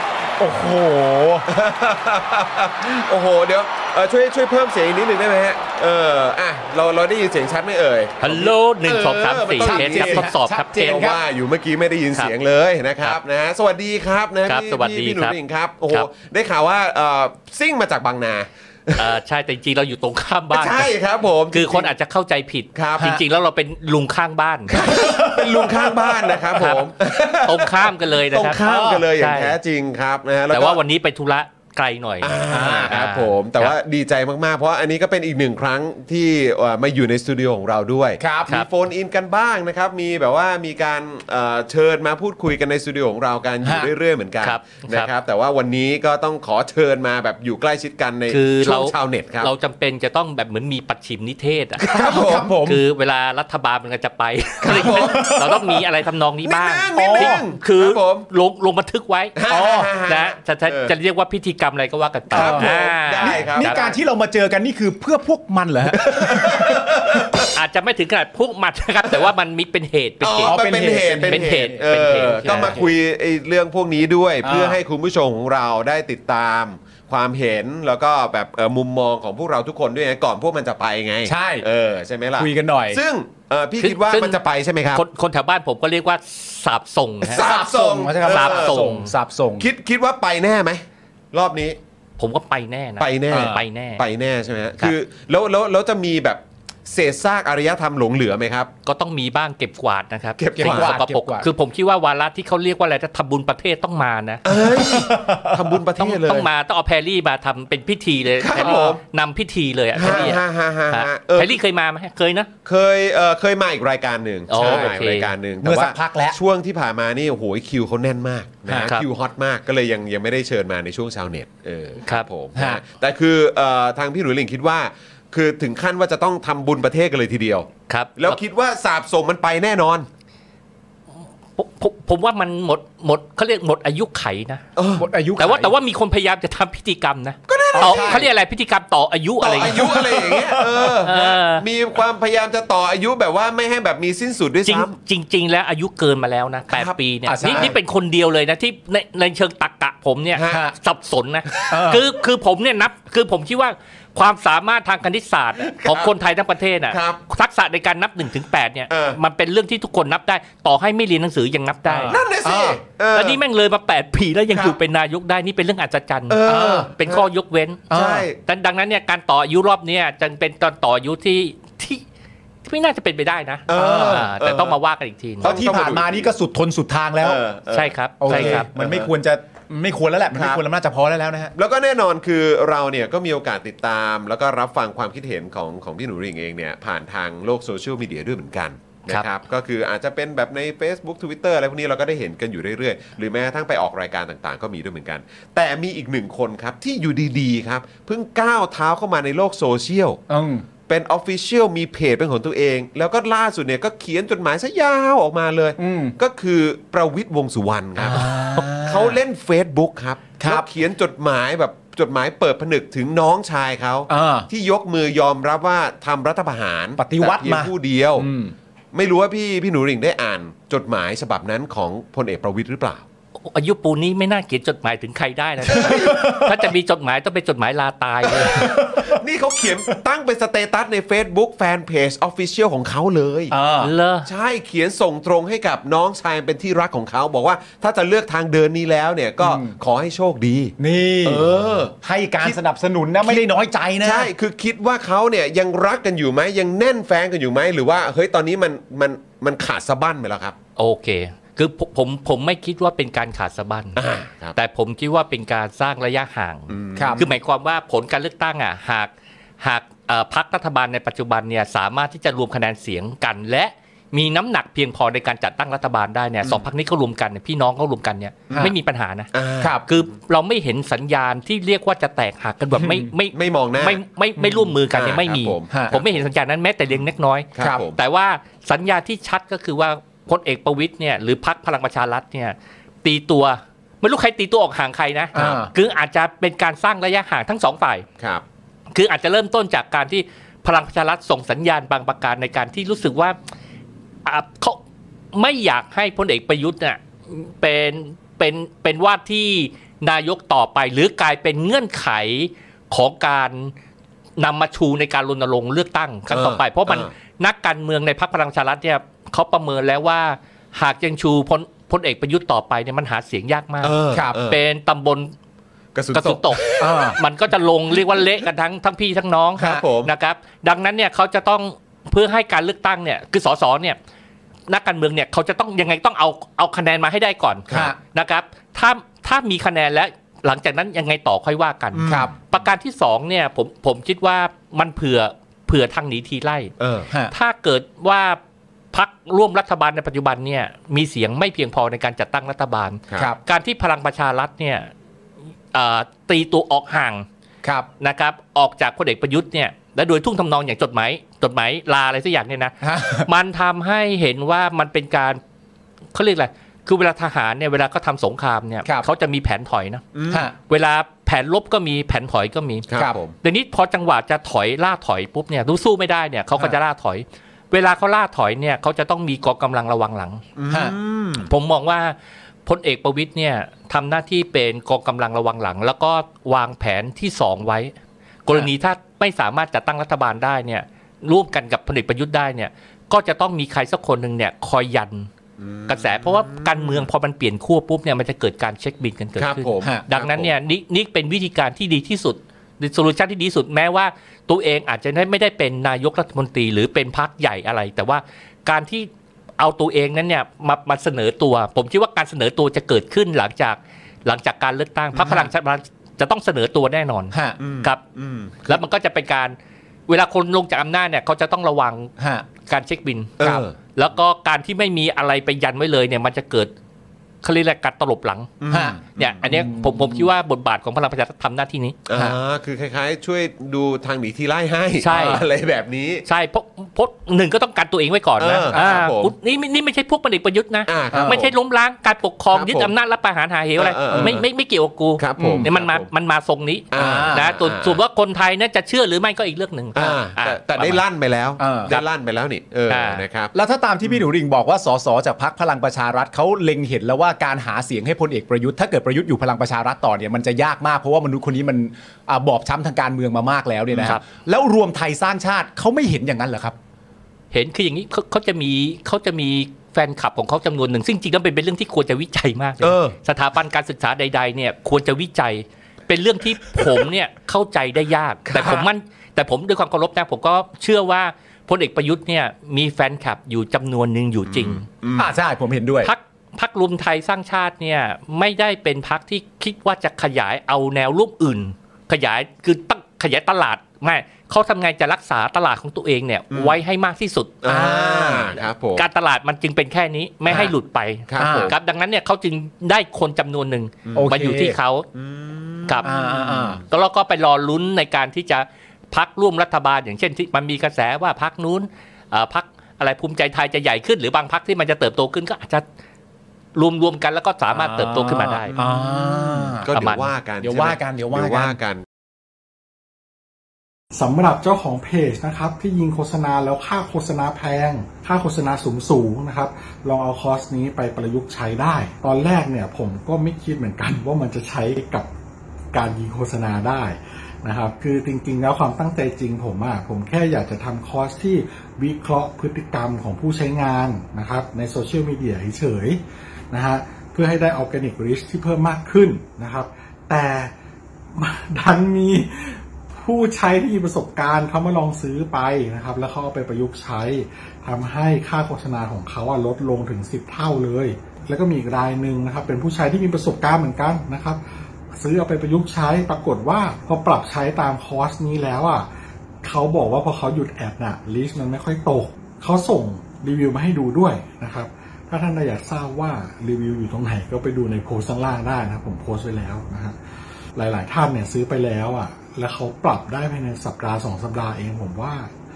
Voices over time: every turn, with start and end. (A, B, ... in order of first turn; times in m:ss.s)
0:00.4-0:01.5 A
0:01.5-0:10.3 B
0:08.2-0:11.1 C
0:09.6-0:11.2 A
0:10.8-0:19.1 B
0:14.5-0:15.4 C
0:19.0-0:20.9 C
0:20.5-0:21.9 B
0:21.5-0:24.7 C
0:22.7-0:23.1 B
0:24.7-0:30.8 B
0:24.8-0:26.5 A
0:26.6-0:26.9 C
0:27.4-0:29.6 C
0:28.6-0:29.1 A
0:30.5-0:33.8 C
0:32.2-0:49.5 B
0:32.5-0:33.1 A
0:38.2-0:38.6 A
0:43.6-0:43.9 A
0:44.4-0:45.1 C
0:48.3-0:51.8 C
0:51.8-0:52.5 B
0:51.8-0:52.8 A
0:52.6-0:59.4 C
0:54.6-0:55.6 B
0:54.8-0:55.8 A
0:56.4-0:58.3 B
0:57.0-0:57.4 A
0:59.4-1:00.9 B
0:59.5-0:59.9 A
1:00.1-1:04.0 C
1:02.3-1:03.8 B
1:02.3-1:06.8 A
1:05.9-1:07.5 B
1:07.5-1:10.6 C
1:10.2-1:25.0 B
1:10.4-1:12.9 A
1:11.2-1:12.8 C
1:14.4-1:14.8 A
1:21.2-1:21.7 A
1:22.4-1:23.0 A
1:23.8-1:24.4 C
1:24.9-1:27.4 C
1:27.2-1:28.8 B
1:27.4-1:29.7 A
1:28.2-1:29.1 C
1:29.6-1:31.8 B
1:32.2-1:34.0 C
1:33.0-1:38.7 B
1:33.3-1:33.6 A
1:38.8-1:44.4 C
1:40.4-1:41.0 B
1:40.6-1:41.5 A
1:44.4-1:46.5 B
1:44.5-1:45.8 A
1:46.0-1:52.5 C
1:48.4-1:49.0 B
1:50.0-1:51.6 B
1:50.0-1:50.4 A
1:52.6-2:10.1 B
1:54.5-1:55.3 C
1:54.6-1:54.9 A
1:55.6-1:56.4 A
2:02.0-2:02.3 C
2:02.6-2:02.8 A
2:07.9-2:08.4 C
2:11.6-2:14.6 C
2:14.8-2:15.1 B
2:15.0-2:15.8 A
2:15.4-2:20.0 C
2:17.5-2:18.3 B
2:17.8-2:18.3 A
2:19.4-2:25.0 B
2:19.6-2:21.0 A
2:21.0-2:21.6 C
2:24.7-2:42.2 C
2:26.7-2:27.8 B
2:27.2-2:27.8 A
2:30.3-2:30.6 B
2:30.5-2:30.7 A
2:31.5-2:31.8 B
2:31.7-2:32.0 A
2:35.6-2:36.1 B
2:36.9-2:37.2 B
2:38.9-2:39.2 B
2:41.9-2:42.8 A
2:42.1-2:43.4 B
2:43.1-2:47.9 C
2:46.3-2:47.2 B
2:46.5-2:46.9 A
2:47.9-2:48.3 A
2:47.9-2:48.4 B
2:48.4-2:52.0 C
2:52.6-2:55.6 C
2:53.7-2:54.8 B
2:53.7-2:54.3 A
2:55.4-2:56.3 B
2:55.4-2:57.4 A
2:57.2-2:59.1 B
2:57.7-2:58.7 C
2:58.2-3:01.5 A
3:00.3-3:00.6 B
3:01.6-3:20.2 B
3:20.3-3:20.7 A
3:20.9-3:38.3 B
3:25.8-3:26.2 A
3:28.0-3:29.2 A
3:30.4-3:30.7 A
3:34.1-3:34.5 A
3:37.0-3:38.5 A
3:38.9-3:43.0 B
3:43.4-3:48.7 C
3:45.7-3:46.5 B
3:45.8-3:46.6 A
3:48.4-3:49.1 A
3:48.6-3:53.5 B
3:53.5-3:53.9 A
3:53.8-3:54.3 C
3:54.3-4:02.6 B
3:59.4-3:59.7 A
4:00.8-4:04.3 A
4:04.0-4:10.6 B
4:10.8-4:14.0 C
4:14.0-4:14.6 B
4:14.6-4:29.3 C
4:16.7-4:17.3 B
4:17.0-4:17.3 A
4:26.4-4:26.7 B
4:28.5-4:28.8 A
4:29.3-4:29.8 B
4:29.6-4:29.9 A
4:29.9-4:48.1 C
4:32.8-4:33.1 A
4:33.3-4:34.0 B
4:34.4-4:34.7 A
4:34.9-4:36.2 B
4:35.7-4:36.0 A
4:36.9-4:38.0 B
4:45.3-4:45.7 A
4:48.9-4:53.4 C
4:54.2-4:54.8 C
4:55.3-5:03.7 C
5:04.4-5:15.3 C
5:06.3-5:07.1 B
5:13.8-5:14.6 B
5:14.1-5:14.4 A
5:16.0-5:17.1 B
5:16.1-5:24.0 C
5:16.8-5:17.2 A
5:17.9-5:18.3 B
5:19.6-5:20.1 B
5:19.6-5:19.8 A
5:24.7-5:36.7 C
5:27.7-5:28.0 A
5:31.9-5:32.4 B
5:32.1-5:32.3 A
5:36.8-5:37.1 B
5:37.1-5:37.3 A
5:37.3-5:38.4 C
5:38.9-5:44.9 C
5:45.7-5:47.3 C
5:48.0-5:55.4 C
5:52.8-5:53.3 A
5:56.1-6:00.0 C
6:00.1-6:00.5 B
6:00.3-6:00.5 A
6:00.6-6:02.9 C
6:02.9-6:03.3 B
6:03.4-6:10.4 C
6:10.6-6:11.5 B
6:11.3-6:12.2 C
6:12.7-6:17.9 C
6:18.5-6:25.3 C
6:25.6-6:27.1 B
6:25.9-6:48.0 C
6:29.4-6:30.5 B
6:45.1-6:45.5 B
6:47.3-6:47.6 A
6:47.6-6:48.8 B
6:48.6-6:49.6 C
6:50.1-6:52.1 C
6:52.2-6:52.5 A
6:52.7-6:53.4 C
6:53.4-6:53.8 B
6:53.4-6:53.7 A
6:53.9-6:56.7 C
6:57.4-7:02.0 C
6:58.6-6:59.5 B
6:58.7-7:00.3 A
7:02.1-7:06.3 B
7:05.0-7:05.4 C
7:05.1-7:05.4 A
7:06.2-7:21.0 C
7:08.4-7:09.3 B
7:08.7-7:09.0 A
7:10.9-7:11.6 B
7:11.1-7:11.4 A
7:12.5-7:12.9 B
7:13.8-7:14.4 B
7:14.1-7:14.4 A
7:15.2-7:16.1 B
7:15.4-7:15.7 A
7:16.9-7:18.0 B
7:17.0-7:17.5 A
7:19.9-7:23.5 B
7:21.6-7:22.0 A
7:22.9-7:23.2 C
7:23.5-7:36.8 A
7:33.9-7:34.2 B
7:37.5-7:54.8 C
7:42.8-7:43.2 B
7:48.5-7:48.9 B
7:54.5-7:55.3 B
7:55.1-7:56.1 A
7:56.0-8:07.6 C
8:06.5-8:06.8 B
8:07.6-8:09.1 B
8:07.7-8:08.6 A
8:09.0-8:15.1 C
8:10.5-8:10.7 A
8:11.3-8:11.7 B
8:11.4-8:11.7 A
8:14.1-8:14.4 B
8:14.2-8:14.8 A
8:15.1-8:16.8 B
8:16.0-8:16.8 A
8:16.9-8:25.9 C
8:26.8-8:28.8 C
8:27.7-8:29.9 A
8:28.7-8:32.0 B
8:29.9-8:30.3 C
8:30.6-8:31.8 A
8:34.2-8:45.3 D
8:45.9-9:00.7 D
9:01.4-9:14.6 D
9:15.2-9:19.1 D
9:19.6-9:30.2 D
9:30.8-9:35.5 D